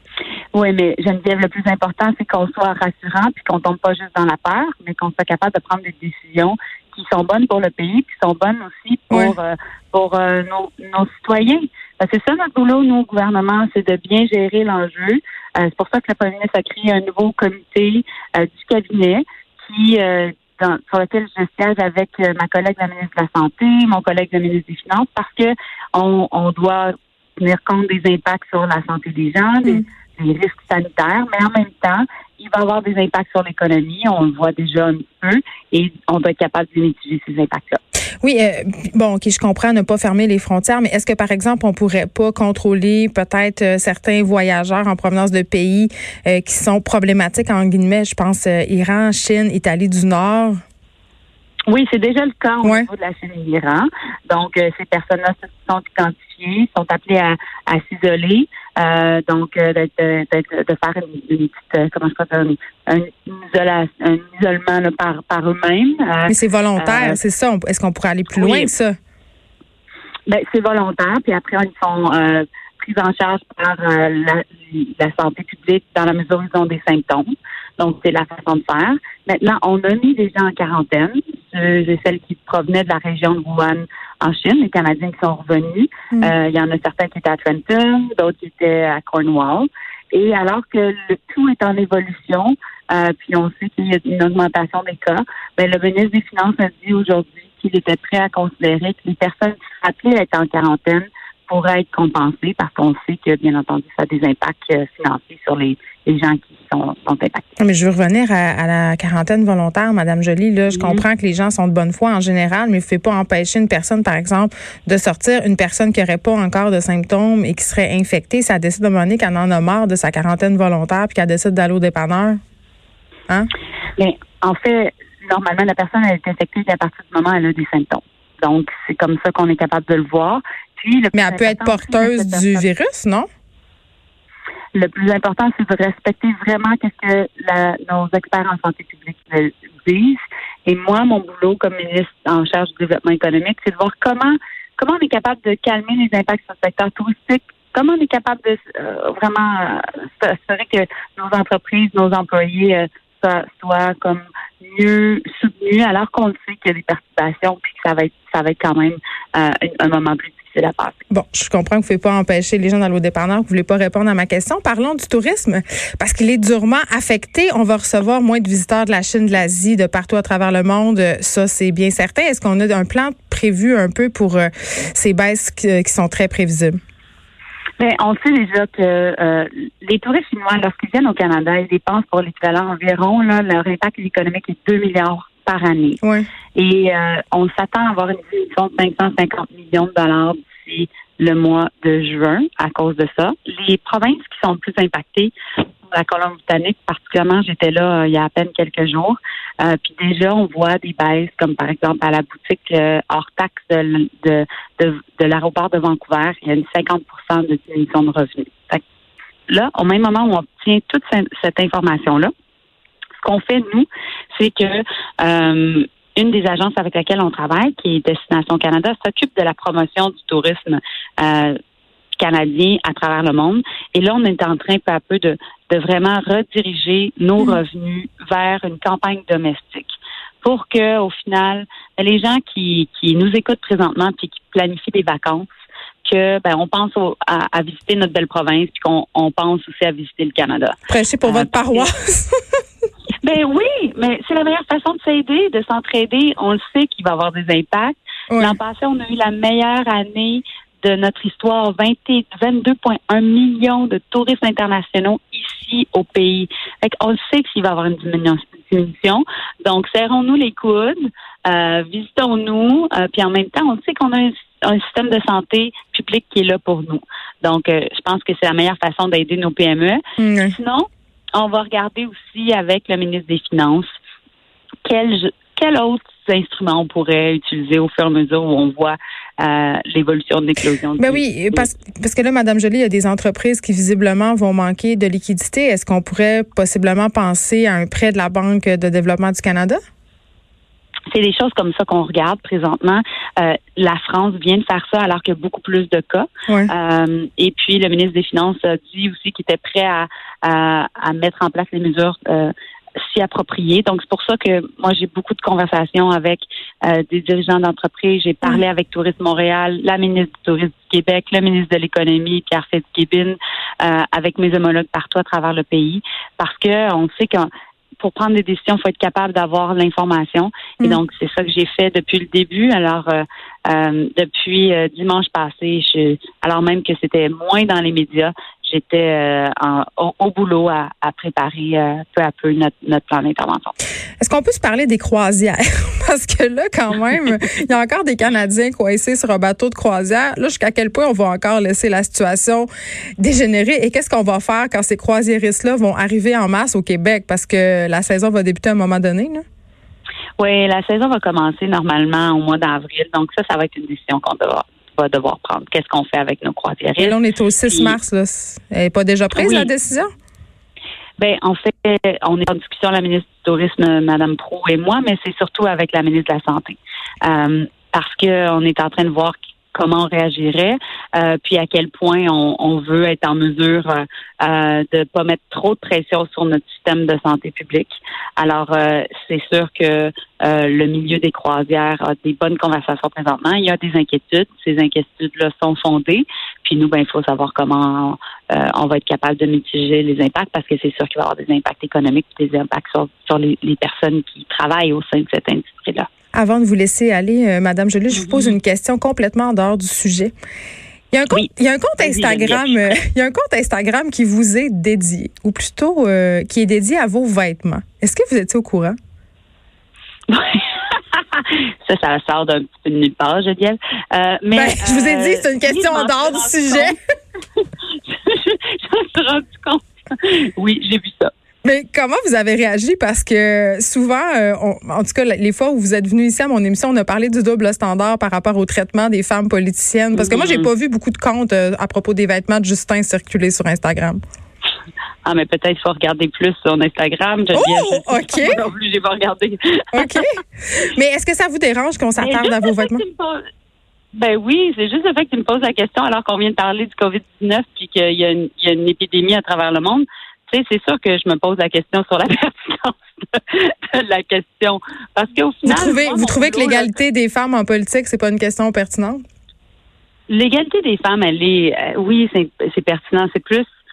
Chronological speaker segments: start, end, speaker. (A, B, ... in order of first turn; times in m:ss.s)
0:00.5-0:37.8 A
0:38.2-0:50.6 B
0:51.7-1:07.2 A
0:52.6-0:52.9 B
1:06.3-1:08.9 B
1:08.3-1:08.7 A
1:10.3-1:47.5 A
1:47.6-2:02.4 B
1:50.7-1:51.0 A
2:04.0-2:12.7 A
2:11.1-2:13.3 B
2:14.7-2:41.0 A
2:41.1-2:56.8 B
2:57.8-3:06.0 A
3:06.0-3:06.3 B
3:06.6-3:15.3 A
3:15.9-3:28.8 A
3:29.5-3:32.3 A
3:33.2-3:41.6 A
3:42.2-3:55.5 A
3:56.0-4:01.9 A
4:00.9-4:02.3 B
4:03.2-4:30.0 A
4:08.3-4:08.6 B
4:30.2-4:30.6 B
4:30.6-4:33.9 A
4:34.8-4:41.7 A
4:41.0-4:49.8 B
4:51.1-5:17.5 A
5:18.0-5:33.7 A
5:34.2-5:42.7 B
5:43.2-5:49.4 B
5:50.4-5:58.0 A
5:57.0-6:00.1 B
5:59.4-5:59.7 A
6:01.2-6:36.1 A
6:36.3-6:40.3 B
6:38.1-6:38.6 A
6:41.1-6:49.0 B
6:41.3-6:43.0 A
6:50.3-6:57.0 A
6:54.5-6:57.0 B
6:57.6-7:01.3 A
7:01.6-7:14.2 B
7:10.2-7:10.7 A
7:15.2-7:20.2 A
7:17.5-7:18.6 B
7:19.9-7:23.0 B
7:22.2-7:23.4 A
7:24.2-7:37.0 A
7:35.6-7:39.2 B
7:40.3-7:43.7 A